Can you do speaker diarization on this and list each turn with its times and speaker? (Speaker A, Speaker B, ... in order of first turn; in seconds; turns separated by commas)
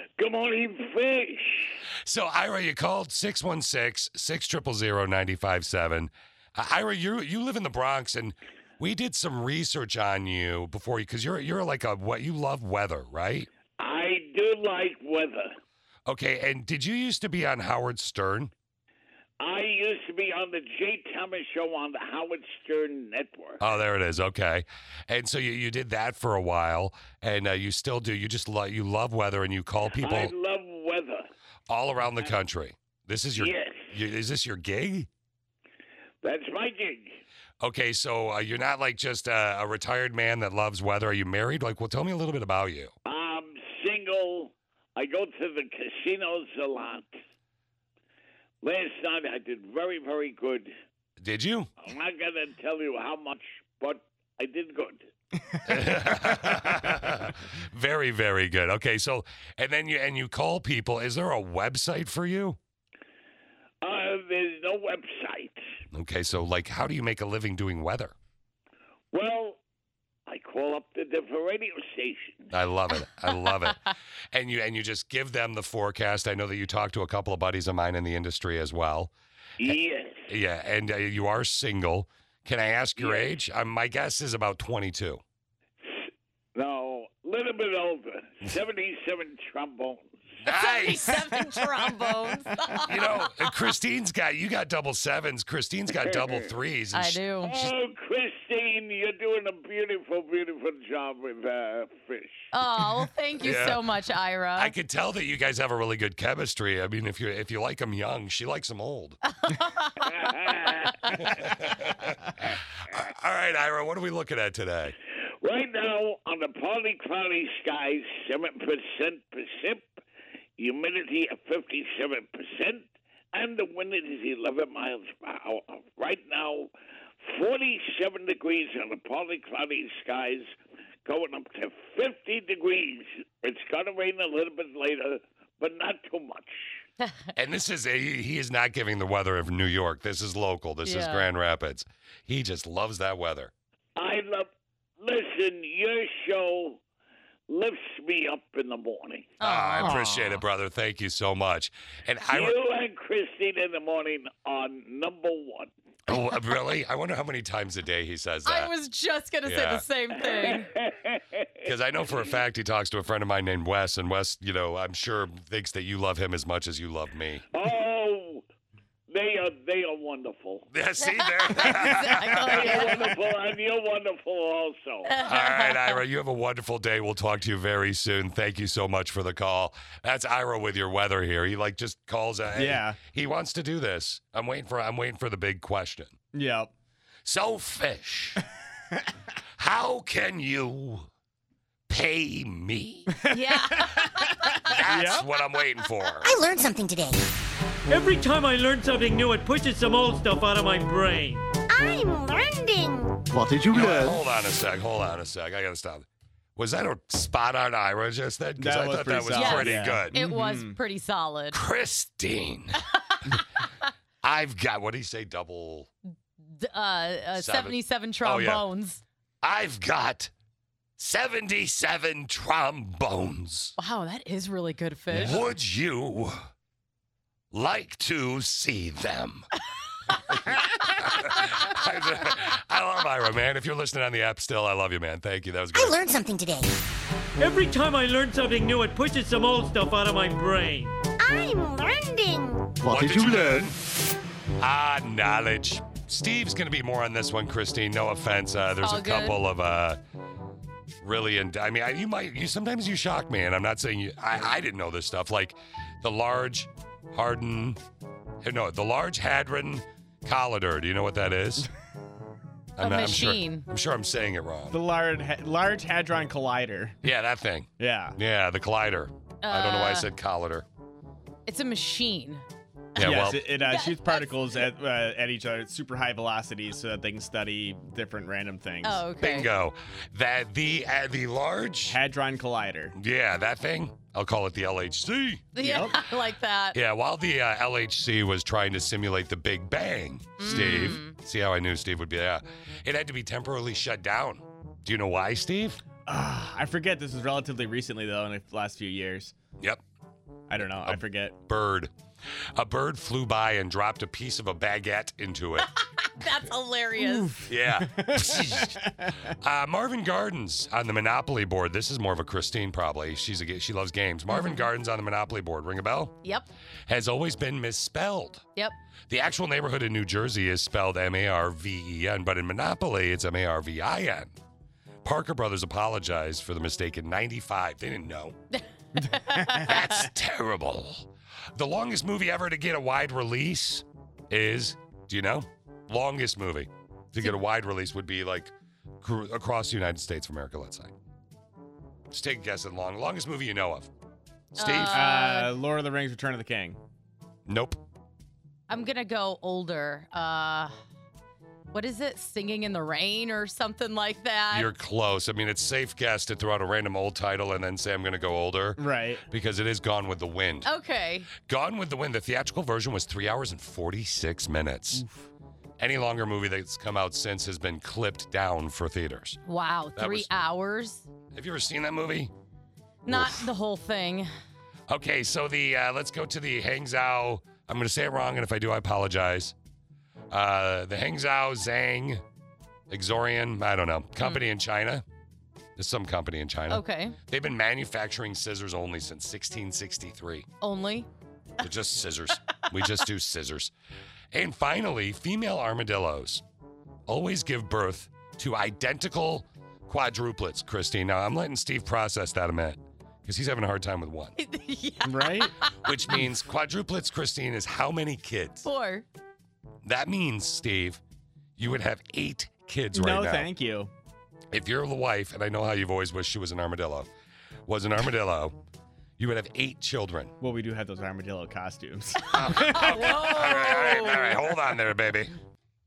Speaker A: 0.2-1.8, Speaker B: 2.0-13.5, Speaker A: 13.8-15.6, Speaker B: 16.1-18.5, Speaker A: 19.4-23.6, Speaker B: 23.6-30.3, Speaker A: 30.0-31.3, Speaker B: 31.7-35.1, Speaker A: 33.3-33.9, Speaker A: 36.2-37.2, Speaker B: 37.6-42.9, Speaker A: 43.0-47.2, Speaker A: 48.6-50.7, Speaker B: 51.2-51.7, Speaker A: 51.8-55.1, Speaker B: 55.6-62.6, Speaker A: 63.8-65.6, Speaker B: 65.9-68.1, Speaker A: 69.1-69.6, Speaker A: 70.3-72.5, Speaker B: 72.5-79.1, Speaker A: 79.6-80.3, Speaker B: 80.3-85.2, Speaker A: 83.0-83.4, Speaker A: 85.8-90.2, Speaker B: 90.4-91.3, Speaker C: 90.5-93.5, Speaker B: 92.8-97.7, Speaker A: 96.0-96.4, Speaker C: 96.9-97.6, Speaker A: 97.4-102.5, Speaker C: 102.5-104.7, Speaker B: 103.4-103.8, Speaker B: 104.6-109.2, Speaker C: 109.4-110.1, Speaker A: 110.0-111.2, Speaker B: 111.2-115.0, Speaker A: 115.4-120.0, Speaker A: 120.6-126.7, Speaker A: 127.2-136.7, Speaker B: 137.3-143.5, Speaker C: 140.8-141.3, Speaker A: 144.0-146.8, Speaker A: 147.5-149.3, Speaker C: 149.4-149.9, Speaker B: 149.4-152.5, Speaker D: 149.8-150.4, Speaker A: 152.3-155.7, Speaker B: 156.1-158.7, Speaker C: 158.4-160.7, Speaker B: 159.4-159.8, Speaker A: 160.3-161.7, Speaker B: 161.6-167.5, Speaker A: 167.5-168.4, Speaker A: 169.1-170.7, Speaker B: 170.7-173.1, Speaker C: 171.0-173.1, Speaker A: 172.3-175.1, Speaker C: 175.1-176.0, Speaker B: 175.2-186.2, Speaker D: 182.6-183.0, Speaker D: 186.3-186.7, Speaker B: 187.2-188.4, Speaker B: 189.6-191.1, Speaker B: 191.9-193.1, Speaker D: 193.1-195.3, Speaker C: 193.3-194.7, Speaker B: 194.7-196.3, Speaker E: 196.2-197.4, Speaker F: 197.9-201.5, Speaker E: 201.7-203.3, Speaker B: 203.7-210.1, Speaker D: 208.6-210.8, Speaker C: 209.3-211.6, Speaker B: 211.5-212.8, Speaker B: 214.2-215.9, Speaker C: 216.4-219.0, Speaker B: 217.3-218.6, Speaker B: 219.4-220.3, Speaker B: 221.0-223.7, Speaker C: 223.8-225.4, Speaker B: 225.1-226.5, Speaker B: 227.5-229.5, Speaker B: 230.3-236.0, Speaker E: 235.7-236.9, Speaker F: 237.4-240.9, Speaker E: 241.2-242.8, Speaker B: 242.8-243.8, Speaker B: 244.6-250.0, Speaker C: 248.8-249.4, Speaker B: 251.0-257.8, Speaker B: 258.4-261.7, Speaker B: 262.8-264.8, Speaker C: 262.8-263.6, Speaker D: 264.7-266.9, Speaker B: 267.0-270.6, Speaker D: 267.8-268.2, Speaker C: 269.4-270.1, Speaker C: 271.4-272.4, Speaker B: 273.0-273.4, Speaker D: 273.0-279.0, Speaker C: 273.0-274.6, Speaker C: 278.8-279.5, Speaker B: 279.2-282.0, Speaker D: 281.9-282.9, Speaker B: 282.9-285.5, Speaker C: 285.5-286.8, Speaker D: 285.6-286.0, Speaker B: 286.7-295.8, Speaker C: 290.4-291.1, Speaker D: 290.5-290.9, Speaker D: 296.1-299.3, Speaker D: 300.5-301.4, Speaker B: 300.8-301.9, Speaker B: 302.5-305.7, Speaker C: 306.0-307.5, Speaker D: 307.0-309.1, Speaker B: 307.5-308.8, Speaker B: 309.4-316.2, Speaker C: 314.3-314.6, Speaker B: 316.9-318.4, Speaker B: 319.1-324.3, Speaker B: 325.0-328.4, Speaker C: 328.5-330.0, Speaker D: 329.0-329.7, Speaker B: 329.6-340.9, Speaker B: 342.1-343.9, Speaker B: 344.5-345.1, Speaker C: 344.6-345.5, Speaker D: 344.9-346.8, Speaker B: 347.5-347.8, Speaker C: 348.7-350.7, Speaker C: 351.7-354.7, Speaker B: 354.5-360.7, Speaker D: 358.8-359.2, Speaker C: 360.6-361.3, Speaker B: 361.4-365.0, Speaker B: 365.8-369.4, Speaker C: 369.5-371.1, Speaker B: 369.9-370.3, Speaker B: 371.3-372.3, Speaker C: 373.1-374.3, Speaker B: 373.1-373.5, Speaker B: 374.9-379.5, Speaker B: 380.3-382.2, Speaker B: 382.9-385.0, Speaker B: 385.8-390.5, Speaker C: 386.7-387.1, Speaker C: 390.6-391.1, Speaker B: 391.6-393.7, Speaker B: 394.3-396.4, Speaker B: 397.1-404.3, Speaker C: 404.4-405.9, Speaker D: 405.0-405.5, Speaker B: 405.8-408.7, Speaker C: 408.6-409.1, Speaker B: 409.8-411.0, Speaker B: 411.6-413.5, Speaker D: 412.9-413.9, Speaker B: 414.5-417.1, Speaker B: 417.7-418.6, Speaker B: 419.2-420.3, Speaker D: 420.4-423.3, Speaker B: 422.3-425.3, Speaker C: 422.4-424.5